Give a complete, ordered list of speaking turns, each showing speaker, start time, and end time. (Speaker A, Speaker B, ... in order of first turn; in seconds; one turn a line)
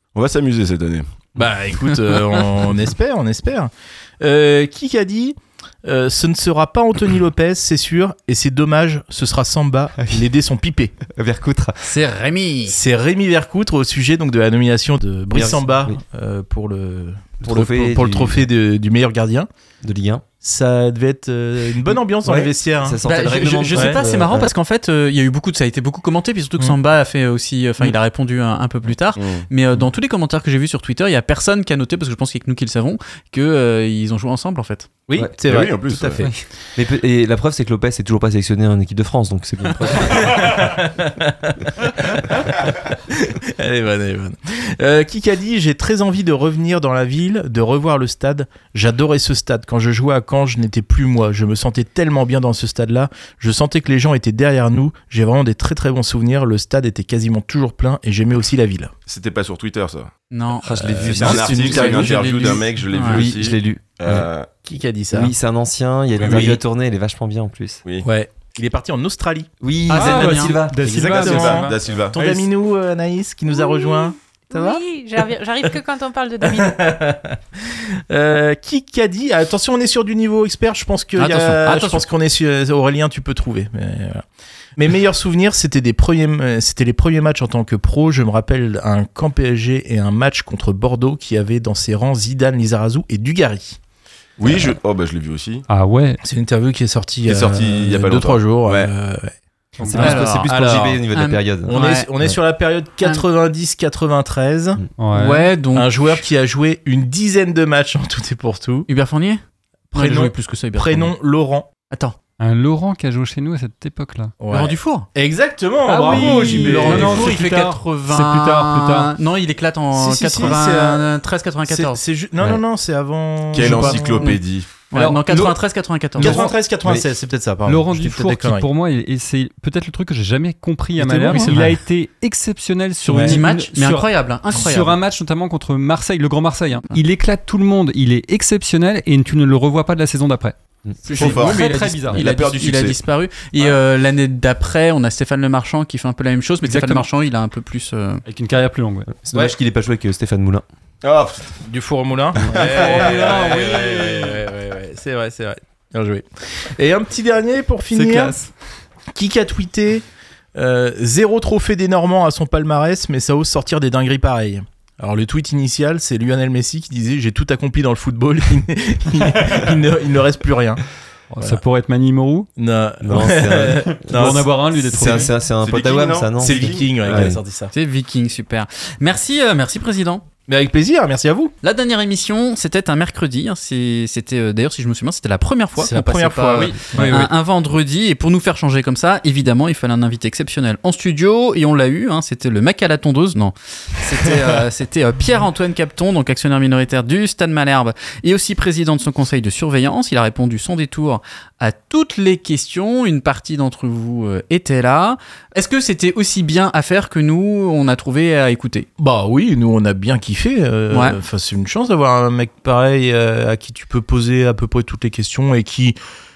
Speaker A: 0.1-1.3
Speaker B: 1.3-11.0
Speaker C: 11.1-11.8
Speaker D: 11.8-12.8
Speaker B: 12.7-19.5
Speaker C: 15.3-15.9
Speaker C: 17.4-18.4
Speaker C: 19.8-20.2
Speaker B: 20.4-23.0
Speaker C: 22.2-24.5
Speaker D: 23.0-34.9
Speaker B: 23.7-24.0
Speaker A: 29.1-29.5
Speaker B: 35.1-36.3
Speaker A: 35.4-36.2
Speaker C: 36.8-40.6
Speaker B: 40.0-58.9
Speaker A: 59.1-60.1
Speaker D: 60.3-63.3
Speaker C: 60.6-62.3
Speaker A: 60.7-64.5
Speaker B: 61.2-62.0
Speaker C: 63.0-64.2
Speaker B: 64.6-65.3
Speaker C: 65.1-67.8
Speaker A: 66.2-66.6
Speaker B: 68.0-69.5
Speaker C: 69.6-71.0
Speaker D: 69.9-70.6
Speaker E: 69.9-71.8
Speaker B: 70.8-74.8
Speaker A: 71.0-72.3
Speaker F: 73.6-76.9
Speaker B: 76.4-84.2
Speaker D: 81.2-82.0
Speaker B: 84.8-93.8
Speaker A: 94.4-95.6
Speaker E: 95.7-96.2
Speaker B: 96.2-99.3
Speaker A: 97.2-98.9
Speaker E: 99.8-100.3
Speaker C: 99.8-101.7
Speaker D: 99.9-100.5
Speaker B: 99.9-101.0
Speaker D: 101.1-102.1
Speaker B: 101.7-104.8
Speaker E: 105.0-105.5
Speaker D: 105.1-106.2
Speaker B: 105.7-108.9
Speaker D: 108.9-109.4
Speaker B: 109.9-111.7
Speaker D: 109.9-111.1
Speaker D: 111.9-112.2
Speaker E: 112.4-114.3
Speaker B: 114.4-117.2
Speaker D: 114.5-115.1
Speaker E: 115.8-119.1
Speaker A: 116.0-117.3
Speaker D: 116.4-122.0
Speaker B: 119.9-121.1
Speaker B: 121.7-124.2
Speaker A: 123.5-124.8
Speaker D: 123.6-126.5
Speaker E: 125.0-125.5
Speaker B: 125.0-125.5
Speaker B: 126.2-128.7
Speaker E: 126.2-126.5
Speaker E: 127.7-140.6
Speaker B: 131.0-131.7
Speaker D: 131.3-131.7
Speaker D: 133.0-135.0
Speaker D: 141.0-148.2
Speaker E: 141.1-142.2
Speaker A: 141.1-143.0
Speaker E: 146.6-147.0
Speaker E: 148.3-149.1
Speaker C: 149.1-150.6
Speaker A: 151.0-151.6
Speaker B: 151.6-158.3
Speaker E: 152.6-154.4
Speaker A: 152.8-153.2
Speaker E: 157.9-158.5
Speaker B: 159.1-170.8
Speaker E: 171.3-172.5
Speaker B: 172.6-175.3
Speaker C: 173.0-177.4
Speaker E: 173.8-175.3
Speaker A: 175.5-177.1
Speaker B: 176.4-177.7
Speaker D: 177.7-180.2
Speaker B: 180.5-181.5
Speaker D: 181.6-208.9
Speaker B: 185.8-187.2
Speaker E: 186.6-187.3
Speaker B: 209.0-216.0
Speaker D: 210.9-211.2